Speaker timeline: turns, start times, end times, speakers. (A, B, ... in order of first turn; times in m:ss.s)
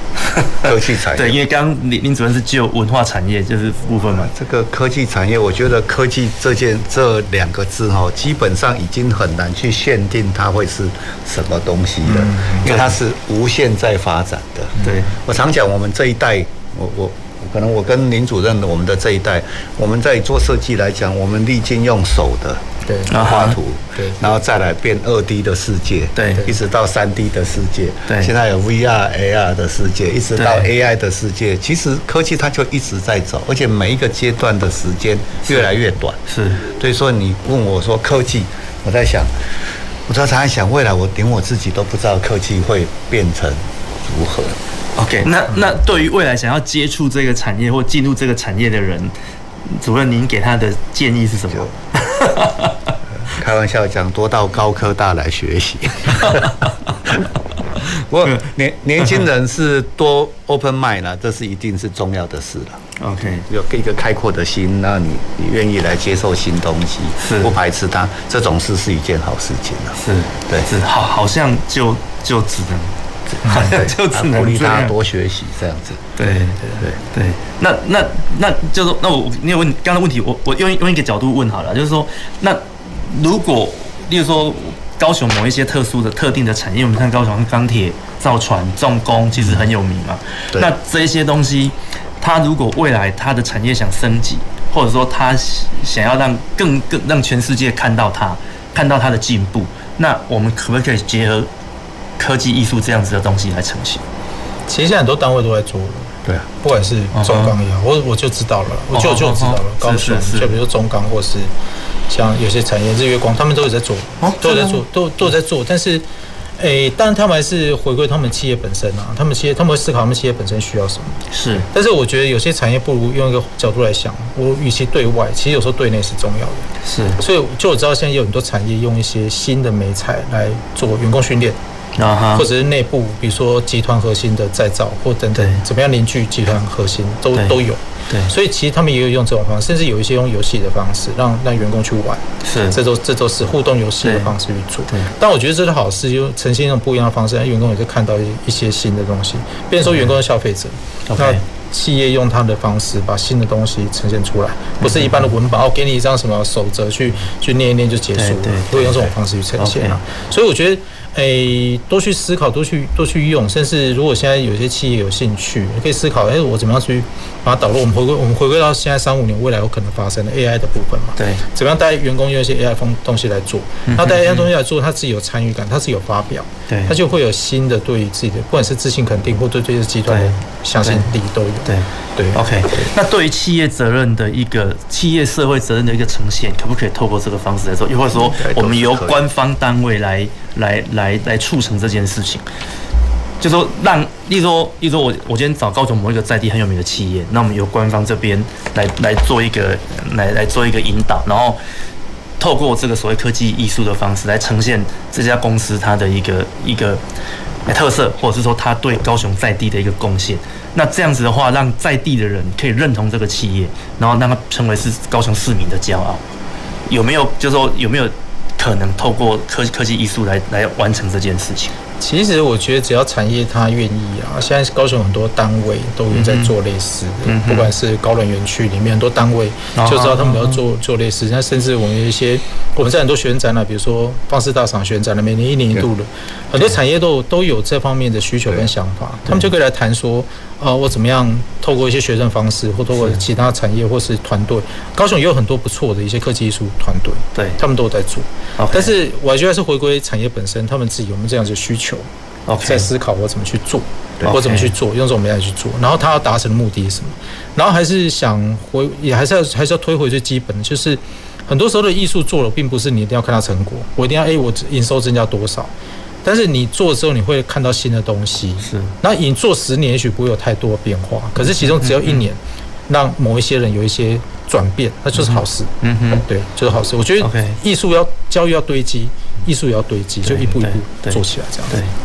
0:00.2-0:04.3 A
0:00.6-0:01.4 B
0:04.0-0:39.3 B
0:12.1-0:12.6 C
0:12.6-0:12.9 A
0:14.8-0:15.1 A
0:22.9-0:23.2 C
0:23.1-0:23.6 A
0:24.0-0:24.2 C
0:26.2-0:26.4 A
0:30.4-0:30.7 A
0:36.3-0:36.6 A
0:40.1-0:44.6 B
0:45.0-0:49.1 A
0:49.7-0:52.9 A
0:53.2-0:57.1 B
0:56.2-0:56.7 A
0:57.9-1:10.7 B
1:03.0-1:03.5 A
1:07.2-1:07.5 A
1:10.0-1:12.9 A
1:13.3-1:16.1 B
1:13.4-1:14.9 A
1:13.5-1:13.8 C
1:16.2-1:16.6 A
1:17.1-1:41.5 A
1:42.2-1:44.0 A
1:44.7-1:51.5 C
1:47.1-1:47.6 A
1:48.9-1:50.6 A
1:52.1-1:56.0 C
1:54.2-1:54.8 A
1:56.6-2:06.7 C
2:01.3-2:01.7 A
2:06.8-2:07.2 A
2:07.2-2:11.6 C
2:12.0-2:12.5 A
2:12.4-3:02.9 C
2:15.4-2:15.6 A
2:22.4-2:22.8 A
2:24.0-2:24.3 A
2:29.8-2:30.2 A
2:31.1-2:31.4 A
2:34.8-2:35.3 A
2:38.2-2:40.0 A
2:51.2-2:51.4 A
2:53.9-2:54.5 A
2:56.7-2:57.0 A
3:00.1-3:01.1 A
3:01.6-3:12.4 A
3:08.2-3:09.2 B
3:13.4-3:21.6 A
3:22.4-3:27.0 A
3:27.7-3:36.2 A
3:36.9-3:41.7 A
3:42.0-4:12.1 C
3:46.1-3:46.5 A
3:47.3-3:47.7 A
3:49.8-3:50.6 A
4:03.0-4:03.2 A
4:07.4-4:07.6 A
4:08.6-4:08.9 A
4:12.5-4:12.9 A
4:12.6-4:25.7 C
4:14.3-4:14.7 A
4:26.2-4:41.8 C
4:28.6-4:28.9 A
4:31.4-4:32.3 A
4:35.2-4:36.2 A
4:37.2-4:37.6 A
4:40.2-4:41.9 A